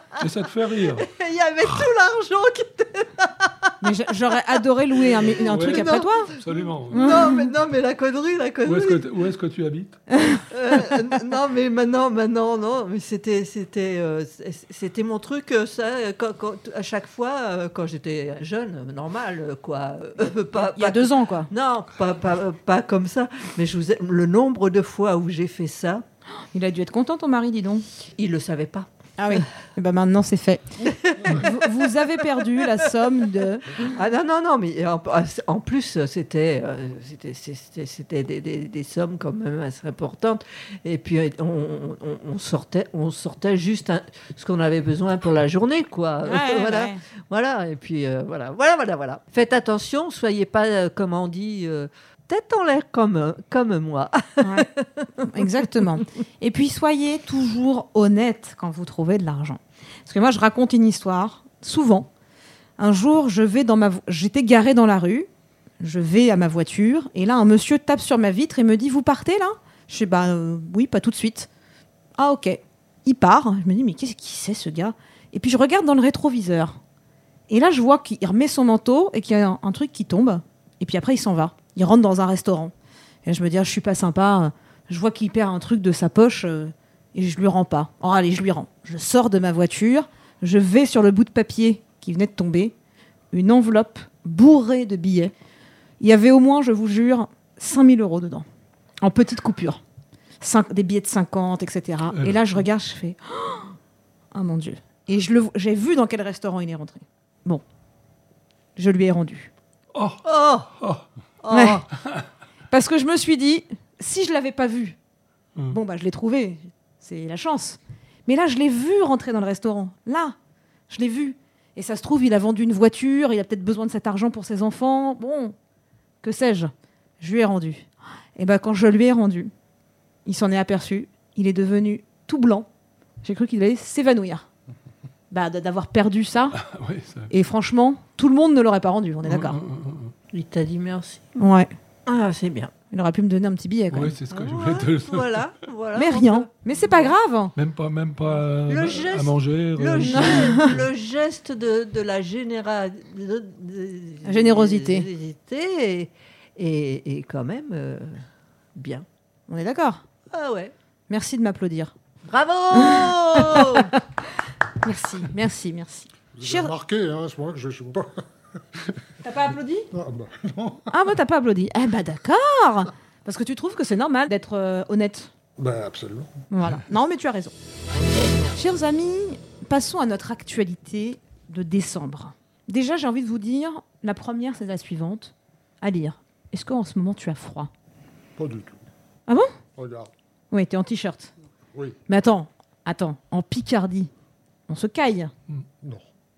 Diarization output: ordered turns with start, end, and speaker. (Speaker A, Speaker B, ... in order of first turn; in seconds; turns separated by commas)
Speaker A: 0.2-1.1, Speaker B: 0.8-3.7, Speaker C: 3.8-6.3, Speaker B: 5.0-9.1, Speaker A: 5.4-7.2, Speaker C: 6.9-7.5, Speaker A: 8.6-10.0, Speaker C: 10.1-10.4, Speaker B: 10.5-26.0, Speaker C: 20.6-21.5, Speaker C: 26.5-27.8, Speaker B: 28.1-29.4, Speaker C: 29.2-33.9, Speaker B: 30.8-31.9, Speaker B: 33.8-55.8, Speaker C: 46.2-47.0, Speaker C: 54.4-54.7, Speaker C: 55.2-62.1, Speaker C: 62.8-65.3, Speaker C: 65.8-71.5, Speaker C: 72.2-76.8, Speaker C: 77.5-82.7, Speaker C: 83.2-92.7, Speaker C: 93.3-95.3, Speaker C: 96.0-98.5, Speaker C: 99.0-99.8, Speaker C: 100.4-103.7, Speaker A: 102.1-102.5, Speaker C: 104.3-107.6, Speaker C: 108.8-109.5, Speaker A: 109.9-110.2, Speaker B: 110.2-110.7, Speaker A: 110.8-111.0, Speaker B: 111.4-111.9, Speaker C: 111.5-111.8, Speaker C: 112.7-115.0, Speaker C: 115.7-120.3, Speaker C: 120.9-125.5, Speaker C: 126.2-129.5, Speaker C: 130.2-132.7, Speaker C: 133.2-134.4, Speaker C: 135.3-136.6, Speaker A: 136.6-137.3, Speaker C: 137.3-139.6, Speaker A: 139.2-140.1, Speaker B: 140.3-141.3, Speaker C: 141.4-141.7, Speaker B: 142.1-142.7, Speaker C: 142.9-144.1, Speaker A: 143.9-145.4, Speaker B: 144.3-147.1, Speaker C: 145.9-147.5, Speaker A: 147.5-150.8, Speaker B: 148.3-158.2, Speaker C: 150.0-150.7, Speaker C: 154.2-155.1, Speaker B: 158.7-159.1, Speaker C: 159.5-160.0, Speaker B: 160.3-160.7, Speaker C: 161.1-161.9, Speaker B: 162.3-163.9, Speaker C: 162.7-163.9, Speaker C: 164.8-166.7, Speaker D: 166.3-169.1, Speaker C: 169.2-169.9, Speaker D: 169.9-170.9, Speaker C: 170.9-175.3, Speaker D: 175.6-176.3, Speaker C: 176.5-177.5, Speaker D: 178.1-178.4, Speaker C: 178.5-187.7, Speaker D: 188.4-188.8, Speaker D: 189.8-190.1, Speaker C: 190.5-191.3, Speaker C: 192.1-194.1, Speaker C: 194.7-195.3